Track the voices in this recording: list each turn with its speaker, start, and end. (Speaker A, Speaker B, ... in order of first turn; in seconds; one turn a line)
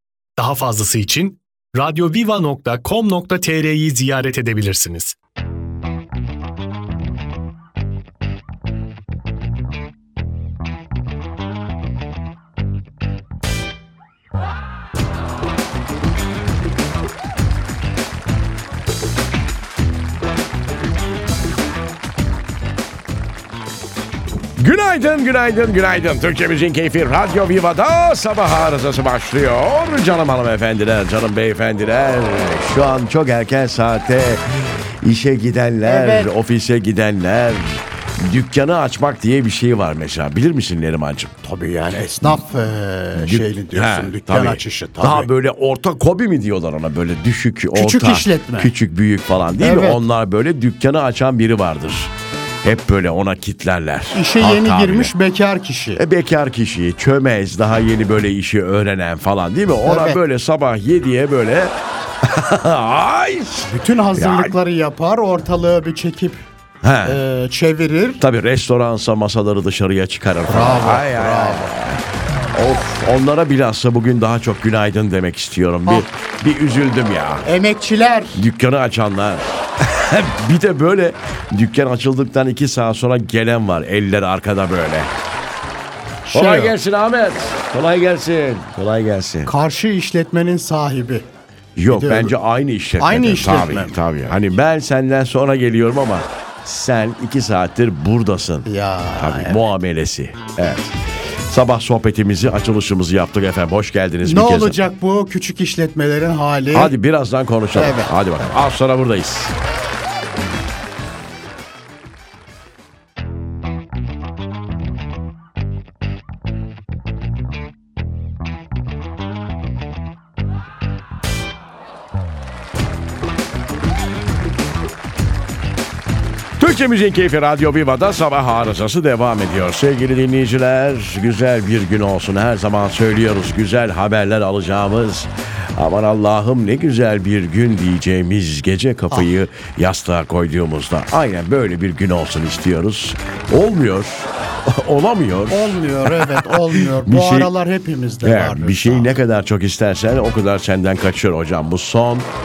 Speaker A: 0.4-5.2
Speaker B: 24.6-41.3
Speaker C: 35.8-36.3
Speaker C: 41.4-45.3
Speaker B: 43.2-52.1
Speaker C: 47.7-48.7
Speaker C: 49.6-50.0
Speaker B: 52.6-55.1
Speaker C: 54.1-56.0
Speaker B: 56.0-64.5
Speaker C: 59.8-60.2
Speaker C: 63.6-66.4
Speaker B: 66.8-67.2
Speaker C: 67.0-68.2
Speaker B: 68.2-77.5
Speaker C: 70.5-71.7
Speaker C: 77.4-78.5
Speaker B: 78.3-85.1
Speaker C: 86.3-86.8
Speaker B: 86.3-89.5
Speaker C: 89.5-91.2
Speaker B: 91.8-100.9
Speaker C: 91.9-92.3
Speaker C: 93.0-94.0
Speaker C: 98.6-99.6
Speaker B: 101.5-104.8
Speaker C: 104.2-106.9
Speaker B: 106.7-109.5
Speaker C: 107.7-108.1
Speaker B: 126.6-147.5
Speaker C: 145.5-149.2
Speaker B: 148.2-152.3